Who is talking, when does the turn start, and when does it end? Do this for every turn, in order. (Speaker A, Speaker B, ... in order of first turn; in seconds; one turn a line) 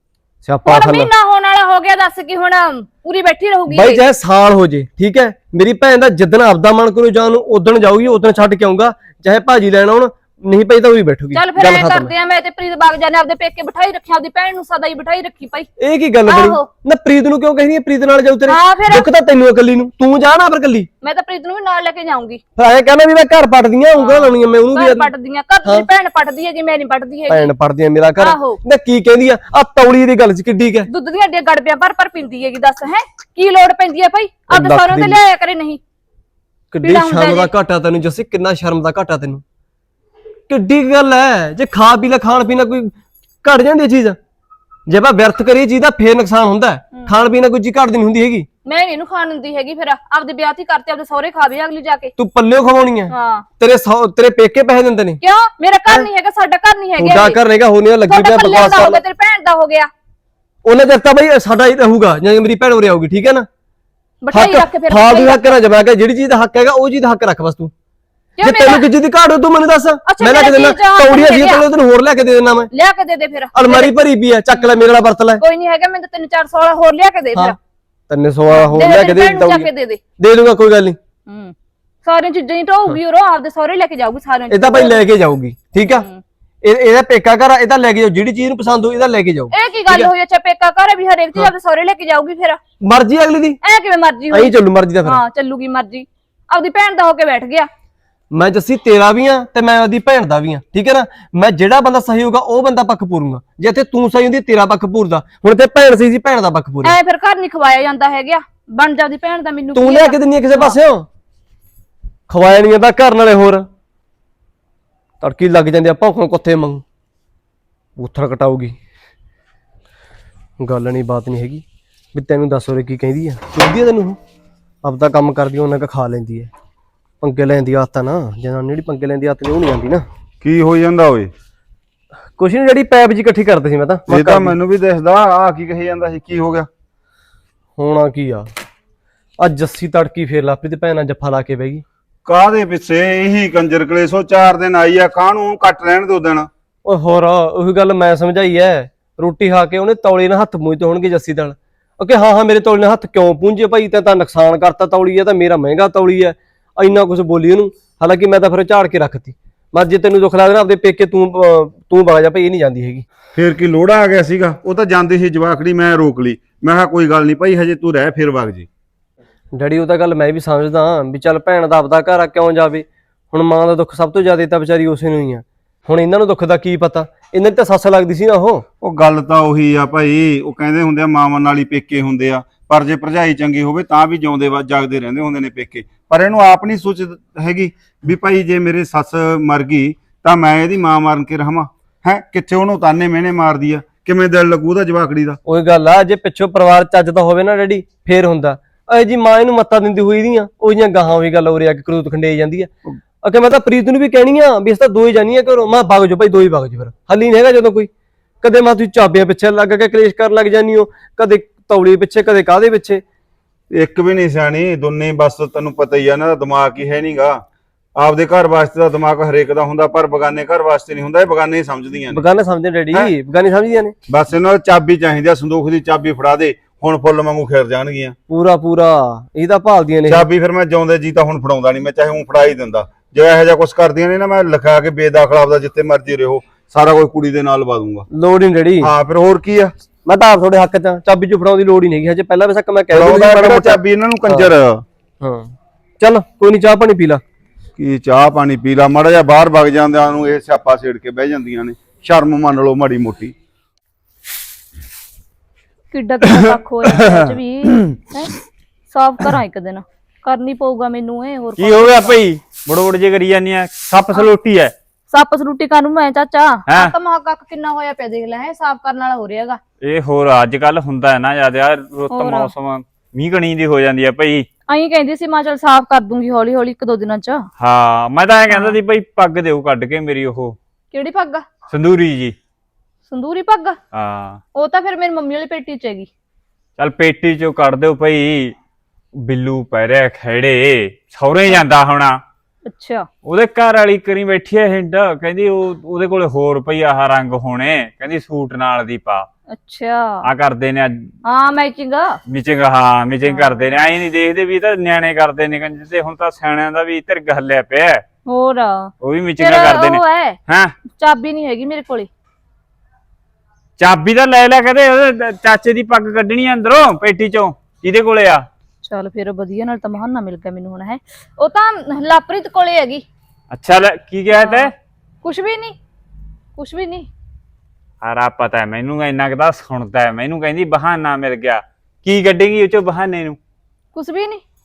Speaker A: 0.4-1.1
Speaker B: 0.6-4.0
Speaker A: 3.7-12.1
Speaker B: 11.3-15.7
Speaker A: 15.8-20.9
Speaker B: 16.2-16.7
Speaker B: 18.4-19.1
Speaker B: 21.0-22.4
Speaker A: 22.6-25.1
Speaker B: 23.9-27.5
Speaker A: 27.3-30.9
Speaker B: 28.2-28.6
Speaker B: 30.9-35.8
Speaker A: 34.5-35.2
Speaker A: 36.7-39.4
Speaker B: 36.8-37.5
Speaker A: 40.5-42.9
Speaker A: 43.4-44.2
Speaker A: 44.9-48.5
Speaker B: 48.6-52.1
Speaker A: 52.2-55.2
Speaker B: 53.1-53.5
Speaker B: 55.2-57.4
Speaker A: 57.0-59.0
Speaker B: 58.0-59.9
Speaker A: 60.6-63.5
Speaker B: 64.2-65.6
Speaker A: 64.3-67.7
Speaker B: 68.4-68.9
Speaker A: 68.4-72.7
Speaker B: 70.0-71.7
Speaker B: 72.7-74.0
Speaker A: 73.5-75.4
Speaker B: 75.4-77.5
Speaker A: 78.1-81.0
Speaker B: 78.5-80.0
Speaker B: 81.3-85.0
Speaker A: 84.5-86.0
Speaker B: 85.8-86.2
Speaker A: 86.6-90.1
Speaker B: 89.5-92.6
Speaker A: 92.8-93.6
Speaker B: 93.6-97.7
Speaker A: 94.3-95.2
Speaker A: 98.3-107.0
Speaker B: 106.8-110.8
Speaker A: 109.7-111.0
Speaker A: 112.3-113.7
Speaker A: 115.2-116.8
Speaker A: 118.0-118.7
Speaker A: 120.6-124.2
Speaker A: 124.8-126.5
Speaker A: 127.2-130.1
Speaker C: 130.4-131.3
Speaker A: 132.4-134.5
Speaker C: 134.1-136.7
Speaker A: 137.8-138.5
Speaker A: 139.4-141.8
Speaker C: 142.2-146.5
Speaker A: 146.8-163.0
Speaker C: 163.3-168.7
Speaker A: 169.5-178.7
Speaker C: 178.8-195.4
Speaker A: 195.4-202.7
Speaker A: 203.2-207.9
Speaker A: 208.4-213.0
Speaker C: 213.7-217.4
Speaker C: 218.0-222.2
Speaker A: 222.1-223.9
Speaker C: 224.1-228.2
Speaker A: 228.3-230.2
Speaker C: 230.1-238.1
Speaker A: 238.1-238.9
Speaker C: 238.8-239.7
Speaker A: 240.0-244.5
Speaker C: 242.9-244.8
Speaker A: 245.2-247.2
Speaker C: 247.8-253.3
Speaker B: 255.9-258.3
Speaker C: 256.9-258.0
Speaker B: 258.9-262.1
Speaker D: 261.6-264.7
Speaker B: 265.1-269.6
Speaker D: 266.7-266.9
Speaker D: 269.8-274.5
Speaker B: 272.1-272.5
Speaker B: 274.7-277.5
Speaker D: 277.6-280.6
Speaker B: 278.5-278.8
Speaker B: 280.9-281.4
Speaker D: 281.7-282.3
Speaker B: 283.1-283.8
Speaker D: 283.9-284.4
Speaker B: 284.5-286.1
Speaker D: 286.8-288.5
Speaker D: 289.2-292.2
Speaker B: 292.6-293.1
Speaker D: 293.2-299.3
Speaker B: 299.5-300.2
Speaker D: 300.2-301.1
Speaker B: 301.2-302.2
Speaker D: 302.3-308.0
Speaker B: 303.3-303.6
Speaker B: 308.2-310.4
Speaker D: 309.0-310.7
Speaker B: 310.9-312.1
Speaker D: 313.8-318.4
Speaker B: 318.8-323.0
Speaker D: 323.5-324.7
Speaker B: 324.3-324.7
Speaker B: 325.2-325.8
Speaker B: 326.6-327.1
Speaker D: 328.0-333.4
Speaker B: 333.9-334.4